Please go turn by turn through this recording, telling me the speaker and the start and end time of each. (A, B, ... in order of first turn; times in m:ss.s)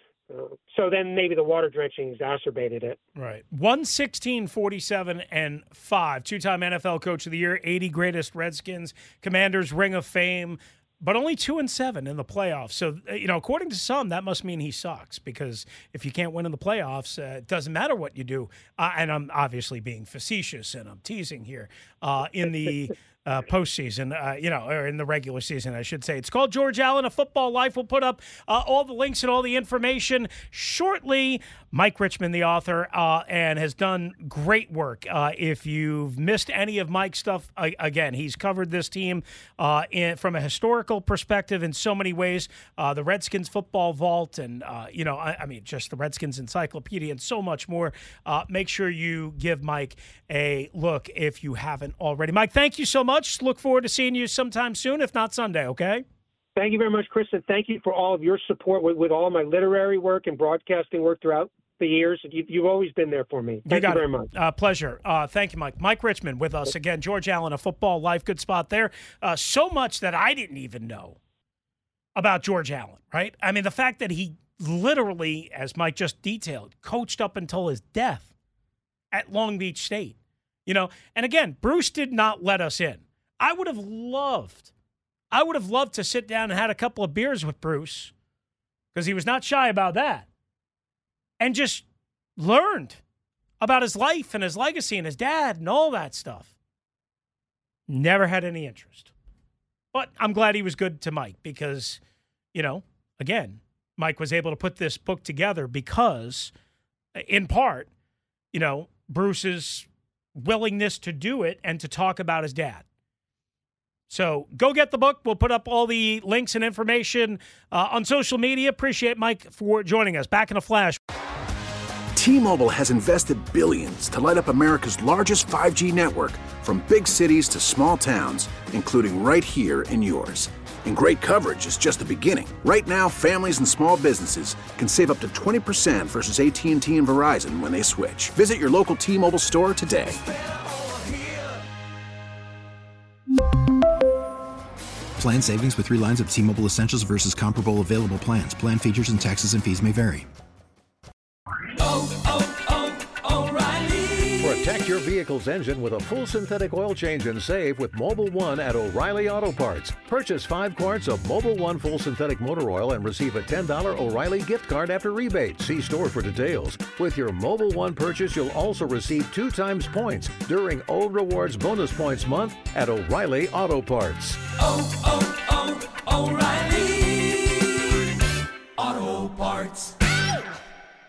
0:00.3-0:03.0 A
0:03.2-0:56.0 B
0:56.6-1:04.3 A
1:03.7-1:11.2 B
1:12.2-1:18.3 B
1:19.1-1:24.7 B
1:25.3-1:28.1 B
1:28.9-1:30.3 B
1:31.4-1:31.8 B
1:32.4-1:33.0 B
1:33.6-1:36.5 B
1:37.9-1:39.1 B
1:39.9-1:42.0 B
1:42.5-1:46.5 B
1:47.2-1:47.9 B
1:48.5-1:52.8 B
1:54.1-2:01.0 B
2:02.2-2:20.2 C
2:25.2-2:30.3 D
2:34.3-2:54.5 E
2:55.9-2:57.4 F
2:58.8-2:59.9 F